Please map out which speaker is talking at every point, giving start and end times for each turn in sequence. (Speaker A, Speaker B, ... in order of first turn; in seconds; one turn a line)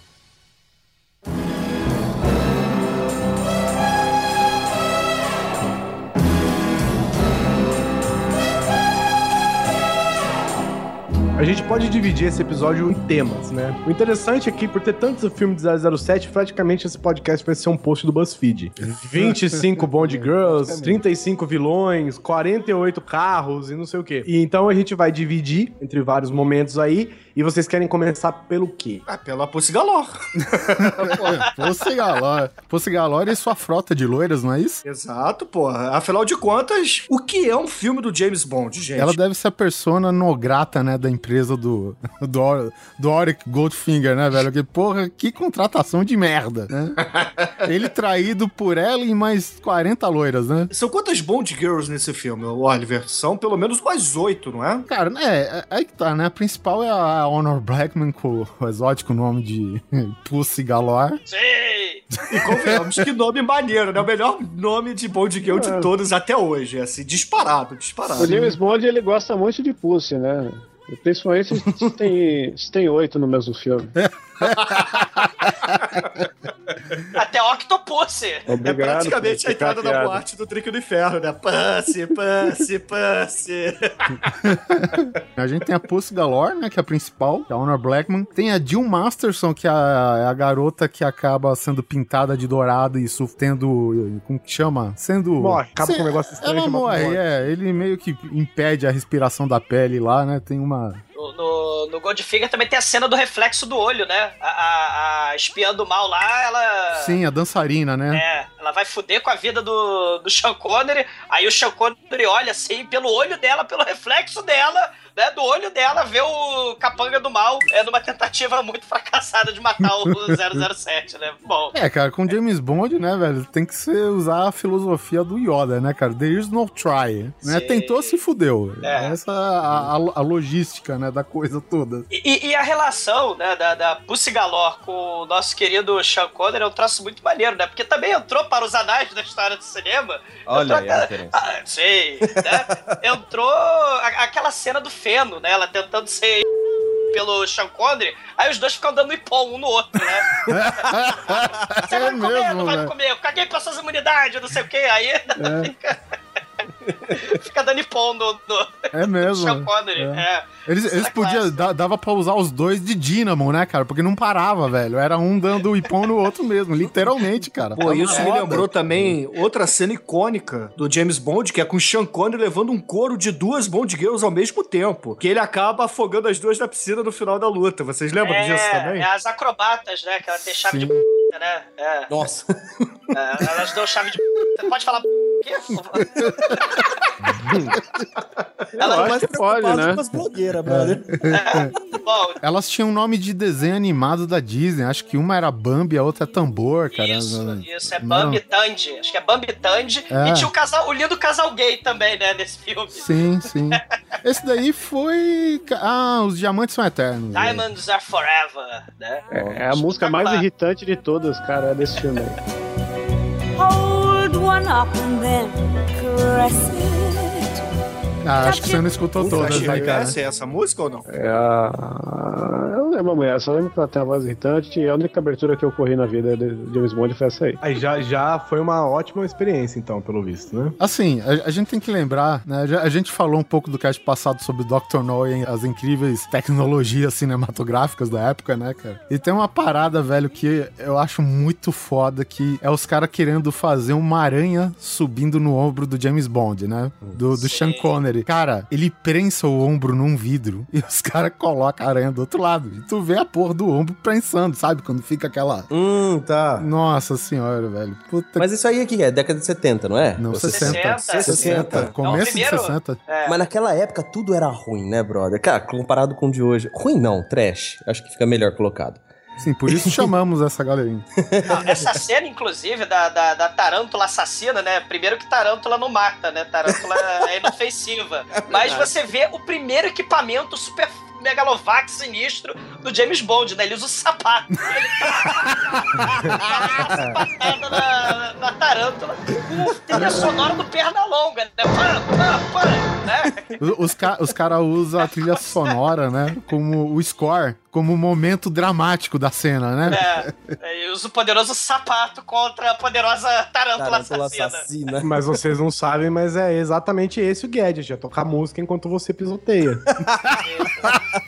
Speaker A: 11.4-29.0
Speaker B: 18.9-21.0
Speaker C: 29.1-31.5
Speaker B: 30.8-34.8
Speaker C: 34.9-39.2
Speaker B: 39.0-47.0
Speaker B: 47.6-50.7
Speaker C: 50.7-54.9
Speaker B: 54.9-61.2
Speaker D: 61.3-62.0
Speaker B: 62.2-62.8
Speaker C: 62.3-68.5
Speaker E: 65.5-65.9
Speaker E: 68.2-73.9
Speaker B: 74.4-75.2
Speaker D: 77.1-78.4
Speaker E: 78.5-80.2
Speaker C: 78.6-84.3
Speaker B: 84.4-101.0
Speaker A: 95.4-97.2
Speaker D: 101.2-107.2
Speaker B: 107.0-108.2
Speaker D: 108.1-121.8
Speaker B: 119.8-120.7
Speaker B: 121.7-132.1
Speaker D: 127.4-128.2
Speaker D: 128.8-129.2
Speaker D: 132.1-146.4
Speaker F: 140.4-141.4
Speaker F: 142.3-143.0
Speaker D: 147.1-156.0
Speaker B: 150.5-152.9
Speaker B: 155.4-155.7
Speaker D: 157.1-160.4
Speaker B: 158.9-169.2
Speaker D: 161.0-161.6
Speaker C: 167.8-179.1
Speaker D: 168.1-168.3
Speaker D: 178.2-182.1
Speaker B: 180.6-181.0
Speaker F: 182.1-182.6
Speaker D: 183.1-186.9
Speaker B: 185.7-186.5
Speaker F: 188.8-191.1
Speaker D: 188.8-189.1
Speaker E: 188.8-190.0
Speaker B: 190.7-191.7
Speaker D: 191.3-192.4
Speaker B: 192.4-198.4
Speaker D: 196.9-203.1
Speaker B: 200.1-200.5
Speaker B: 202.9-207.7
Speaker D: 207.3-210.4
Speaker E: 209.3-212.4
Speaker G: 213.6-217.6
Speaker B: 218.2-220.0
Speaker G: 218.4-219.1
Speaker C: 219.2-221.1
Speaker E: 219.2-220.2
Speaker E: 221.1-227.6
Speaker A: 227.6-230.8
Speaker B: 230.8-255.7
Speaker D: 247.4-247.8
Speaker F: 255.7-256.7
Speaker B: 256.6-258.4
Speaker F: 258.4-262.2
Speaker B: 260.2-263.0
Speaker D: 260.5-261.2
Speaker A: 261.2-261.8
Speaker D: 262.0-263.4
Speaker F: 263.2-269.0
Speaker B: 269.4-271.0
Speaker F: 269.7-270.0
Speaker F: 271.3-271.9
Speaker D: 271.5-293.6
Speaker F: 278.4-278.9
Speaker B: 286.0-287.2
Speaker B: 290.0-290.3
Speaker B: 293.6-300.5
Speaker D: 295.2-295.7
Speaker D: 299.9-304.6
Speaker F: 303.8-305.1
Speaker A: 305.0-309.8
Speaker F: 310.0-310.4
Speaker D: 310.4-310.9